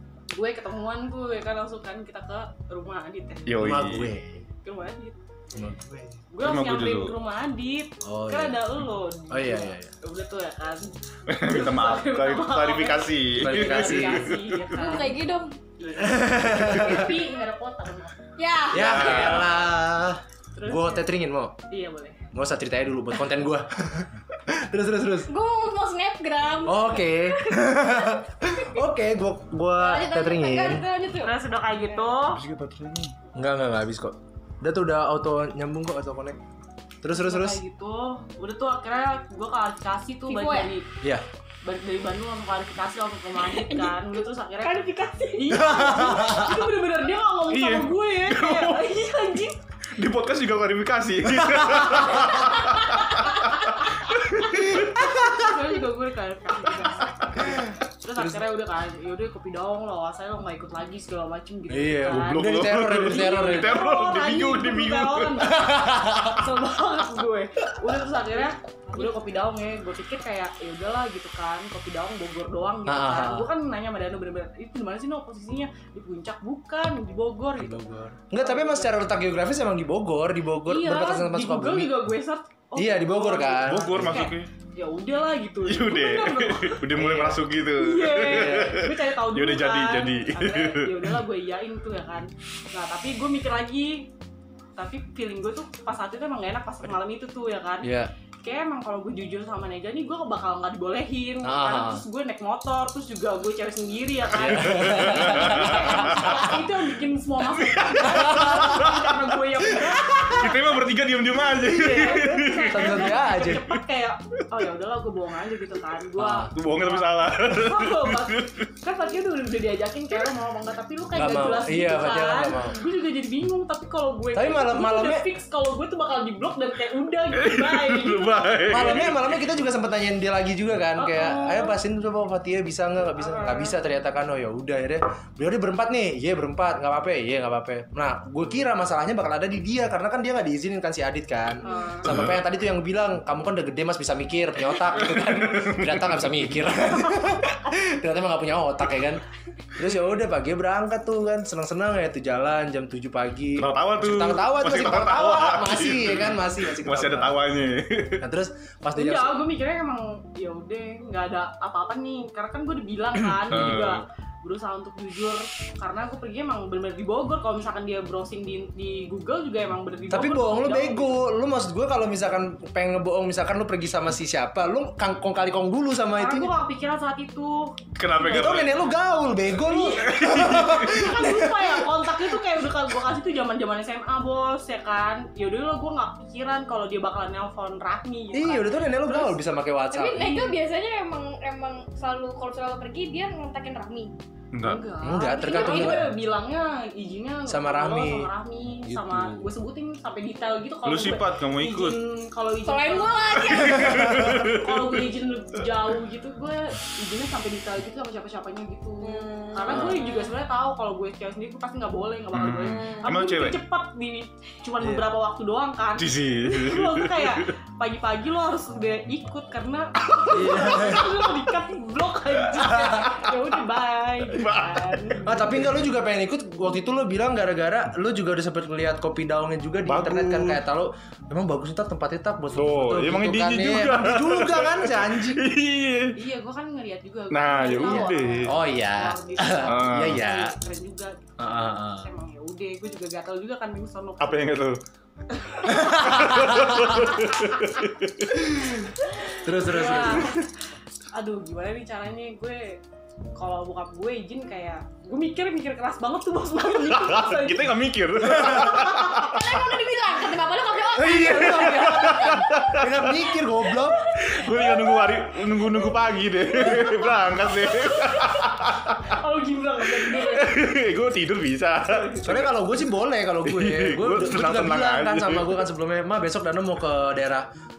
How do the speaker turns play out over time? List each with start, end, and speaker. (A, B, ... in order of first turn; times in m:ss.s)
0:00.3-0:03.8 A
0:03.5-0:04.1 B
0:03.6-0:04.4 C
0:04.6-0:05.2 A
0:05.5-0:06.2 C
0:06.3-0:15.2 A
0:06.4-0:07.1 B
0:08.0-0:08.6 C
0:09.3-0:09.9 C
0:11.3-0:14.8 B
0:13.3-0:14.3 C
0:14.7-0:15.6 D
0:15.8-0:18.3 A
0:16.0-0:17.1 C
0:18.4-0:19.4 D
0:18.7-0:21.6 C
0:18.7-0:19.6 B
0:20.5-0:21.0 A
0:21.7-0:22.2 A
0:22.3-0:25.3 C
0:25.3-0:28.8 D
0:26.6-0:30.9 C
0:29.8-0:32.1 D
0:31.1-0:32.4 A
0:32.3-0:33.2 B
0:33.3-0:36.4 C
0:37.0-0:37.6 C
0:37.1-0:40.8 A
0:40.3-0:40.7 D
0:41.6-0:44.8 A
0:43.4-0:45.6 D
0:45.3-0:49.6 A
0:45.5-0:46.6 C
0:47.5-0:48.8 B
0:50.0-0:55.0 B
0:52.3-0:53.2 D
0:54.8-0:57.1 A
0:57.8-1:19.0 A
1:01.7-1:03.8 C
1:02.0-1:05.5 B
1:05.4-1:06.6 C
1:12.8-1:13.5 C
1:17.6-1:22.0 C
1:20.6-1:26.9 A
1:22.8-1:24.3 C
1:23.6-1:24.5 B
1:25.6-1:31.2 B
1:26.9-1:27.4 C
1:27.8-1:34.1 A
1:28.2-1:28.8 C
1:34.8-1:50.8 A
1:37.8-1:38.1 C
1:41.4-1:42.0 C
1:44.4-1:46.6 C
1:44.7-1:46.4 B
1:47.6-1:49.1 B
1:48.0-1:48.8 C
1:49.9-1:50.3 C
1:50.3-1:53.7 B
1:51.5-2:09.1 A
1:52.6-1:53.6 C
1:56.2-1:56.5 C
1:56.5-1:58.7 B
2:01.1-2:02.8 C
2:04.3-2:05.3 C
2:07.3-2:09.3 B
2:08.7-2:29.2 C
2:11.0-2:11.8 A
2:13.2-2:13.8 A
2:21.6-2:22.1 A
2:25.0-2:26.2 B
2:29.7-2:37.4 C
2:33.5-2:38.2 B
2:38.2-2:39.4 C
2:39.0-2:51.2 A
2:43.5-2:44.0 B
2:50.1-2:56.5 C
2:56.2-2:58.6 A
2:58.0-2:58.8 B
2:58.2-3:01.9 C
2:59.6-3:09.4 A
2:59.8-3:01.1 B
3:08.3-3:10.5 C
3:09.9-3:14.2 D
3:10.2-3:10.5 A
3:14.5-3:14.8 B
3:14.6-3:45.7 A
3:15.0-3:16.1 C
3:15.4-3:16.0 D
3:17.5-3:18.3 C
3:18.8-3:19.5 C
3:20.8-3:22.0 B
3:22.6-3:24.3 D
3:23.4-3:25.1 B
3:29.0-3:30.3 D
3:29.6-3:30.0 B
3:32.3-3:33.6 B
3:32.5-3:33.1 D
3:34.8-3:35.0 C
3:36.0-3:37.5 B
3:40.3-3:41.3 C
3:42.6-3:43.0 C
3:44.3-3:45.5 B
3:45.2-3:55.4 C
3:49.8-3:50.6 B
3:52.5-3:56.2 B
3:56.2-4:04.6 A
3:57.3-3:58.5 B
3:57.7-4:00.5 C
3:59.6-4:00.2 B
4:01.4-4:02.1 C
4:04.2-4:04.8 B
4:05.3-4:06.3 A
4:05.8-4:08.8 B
4:06.0-4:06.6 C
4:09.4-4:10.4 C
4:09.6-4:10.5 A
4:11.1-4:12.8 A
4:13.3-4:17.8 A
4:16.8-4:19.5 B
4:18.4-4:19.2 A
4:19.2-4:22.1 D
4:20.9-4:24.1 C
4:21.2-4:23.3 B
4:23.8-4:25.2 D
4:24.1-4:29.2 B
4:26.6-4:26.9 D
4:28.1-4:28.4 D
4:29.0-4:30.7 A
4:29.9-4:32.5 B
4:31.8-4:32.5 A
4:32.2-4:37.5 C
4:33.4-4:35.7 B